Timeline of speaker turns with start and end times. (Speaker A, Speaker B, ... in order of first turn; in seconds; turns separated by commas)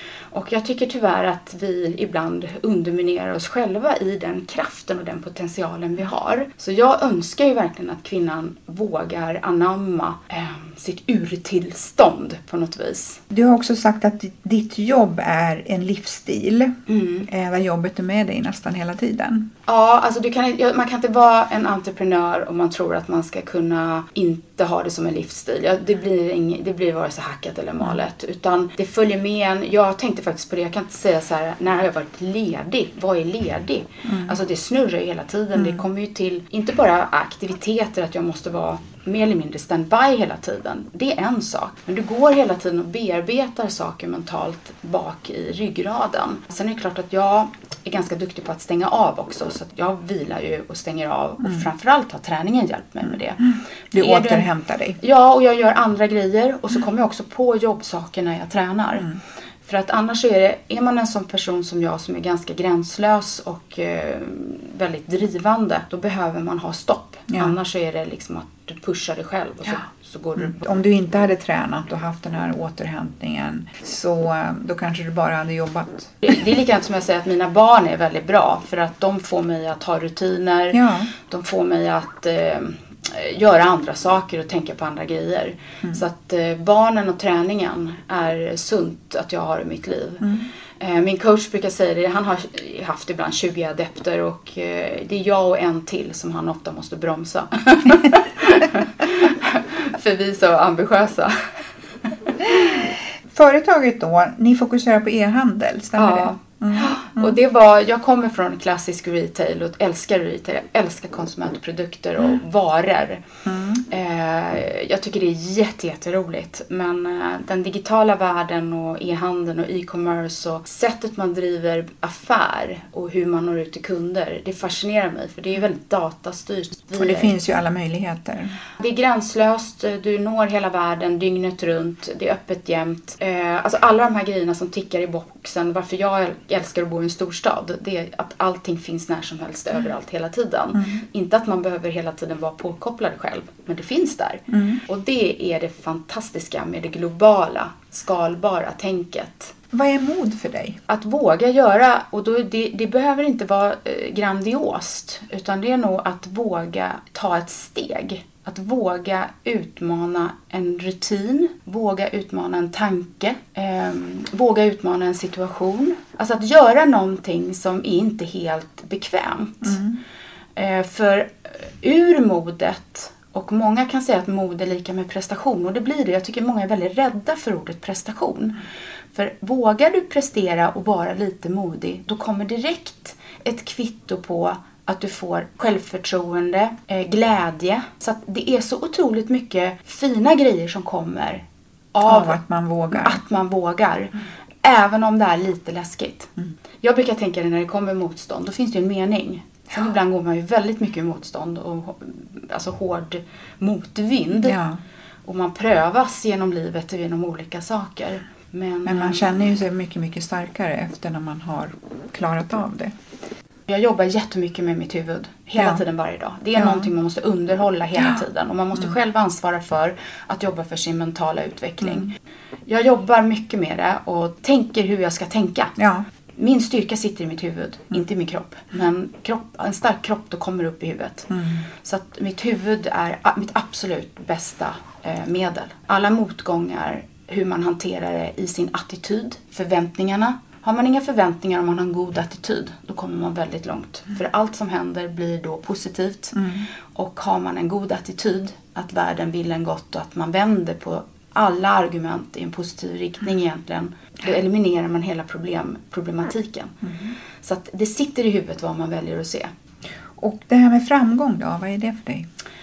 Speaker A: 0.3-13.2, Speaker B: 13.3-19.5, Speaker A: 16.9-17.3, Speaker A: 19.7-53.4, Speaker B: 34.0-34.4, Speaker B: 35.5-35.8, Speaker B: 53.9-55.0, Speaker A: 54.0-54.5, Speaker A: 55.0-59.1, Speaker A: 59.6-70.6, Speaker B: 67.3-67.5, Speaker B: 70.4-76.4, Speaker A: 76.2-101.4, Speaker B: 80.7-81.1, Speaker B: 90.2-90.5, Speaker B: 102.4-107.4, Speaker A: 106.0-113.2, Speaker B: 113.5-113.8, Speaker A: 113.9-127.3, Speaker B: 127.0-128.5, Speaker A: 128.8-149.5, Speaker B: 140.7-141.0, Speaker B: 144.5-144.8, Speaker B: 149.7-150.8, Speaker A: 150.9-169.8, Speaker B: 169.6-170.0, Speaker A: 170.6-178.6, Speaker A: 179.1-192.4, Speaker B: 192.0-193.2, Speaker A: 192.9-196.3, Speaker A: 196.8-204.6, Speaker B: 204.4-204.8, Speaker A: 205.2-209.3, Speaker B: 208.8-212.9, Speaker A: 213.7-222.1, Speaker B: 215.6-215.8, Speaker B: 216.6-216.9, Speaker B: 221.8-222.1, Speaker A: 222.7-225.7, Speaker B: 225.8-226.1, Speaker A: 226.4-231.3, Speaker B: 231.3-231.7, Speaker A: 231.8-256.7, Speaker B: 256.8-257.1, Speaker A: 257.4-259.5, Speaker B: 260.2-262.3